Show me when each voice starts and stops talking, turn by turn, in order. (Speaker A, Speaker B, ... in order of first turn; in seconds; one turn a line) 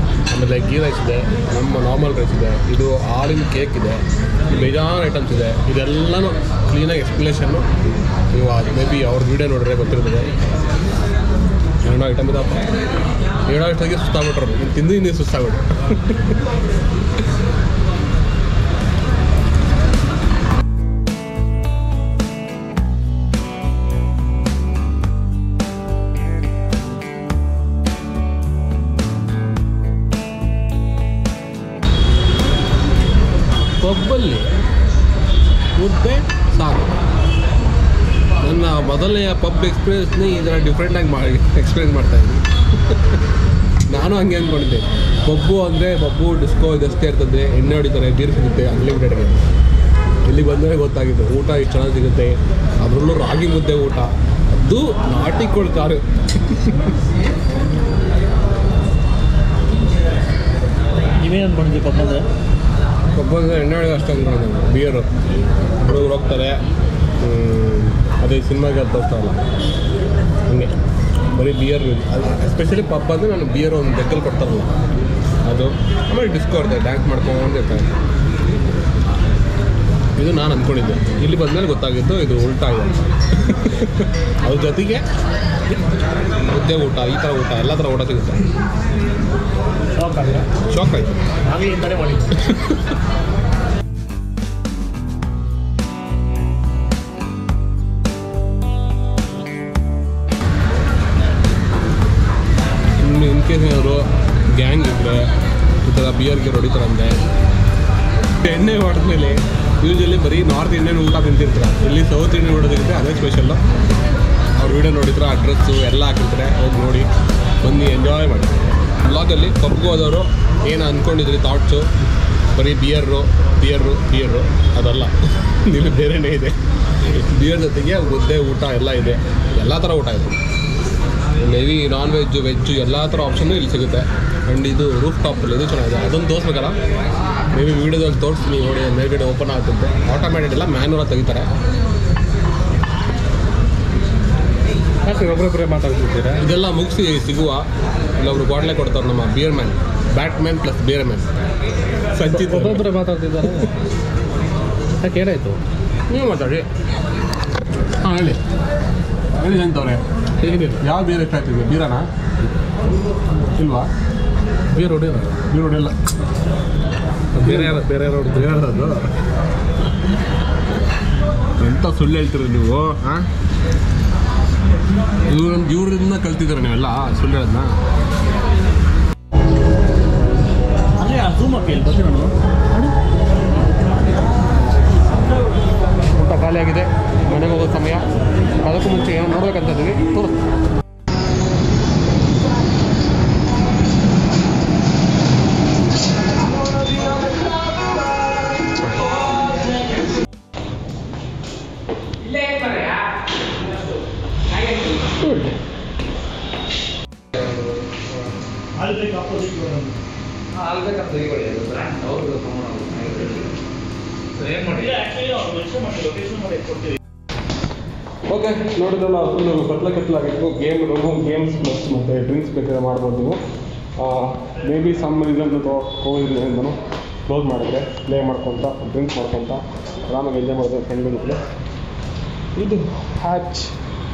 Speaker A: 0.3-7.7
Speaker A: 8.3-10.3
Speaker A: 11.8-12.7
Speaker A: 13.5-16.4
Speaker A: 33.8-34.5
Speaker A: 35.8-36.9
Speaker A: 38.4-43.2
Speaker A: 43.9-49.4
Speaker A: 50.3-57.0
Speaker B: 61.0-62.2
Speaker A: 63.1-65.1
Speaker A: 65.8-66.6
Speaker A: 67.2-69.4
Speaker A: 70.5-70.7
Speaker A: 71.3-74.7
Speaker A: 75.4-77.9
Speaker A: 80.2-85.0
Speaker A: 86.3-88.4
Speaker B: 90.0-90.5
Speaker A: 90.7-91.2
Speaker B: 91.5-92.4
Speaker A: 92.5-92.9
Speaker A: 103.0-105.3
Speaker A: 105.8-107.2
Speaker A: 108.4-113.6
Speaker A: 114.6-117.1
Speaker A: 117.6-121.9
Speaker A: 122.5-130.4
Speaker A: 131.4-136.8
Speaker A: 137.5-141.5
Speaker C: 145.0-146.4
Speaker A: 146.4-147.7
Speaker A: 148.2-151.3
Speaker A: 152.1-152.9
Speaker C: 152.3-153.7
Speaker C: 155.0-155.6
Speaker A: 156.1-156.7
Speaker A: 158.0-158.4
Speaker A: 159.4-162.1
Speaker A: 163.5-163.9
Speaker C: 164.7-165.4
Speaker A: 165.5-165.9
Speaker C: 167.3-168.5
Speaker A: 167.3-169.1
Speaker A: 171.6-173.3
Speaker A: 175.3-177.8
Speaker B: 181.0-182.9
Speaker A: 186.1-188.1
Speaker A: 188.6-190.4
Speaker C: 202.4-203.0
Speaker B: 208.8-210.0
Speaker C: 210.6-213.4
Speaker C: 214.4-214.9
Speaker B: 214.7-216.9
Speaker A: 218.3-223.4
Speaker A: 224.0-231.4
Speaker A: 232.6-233.8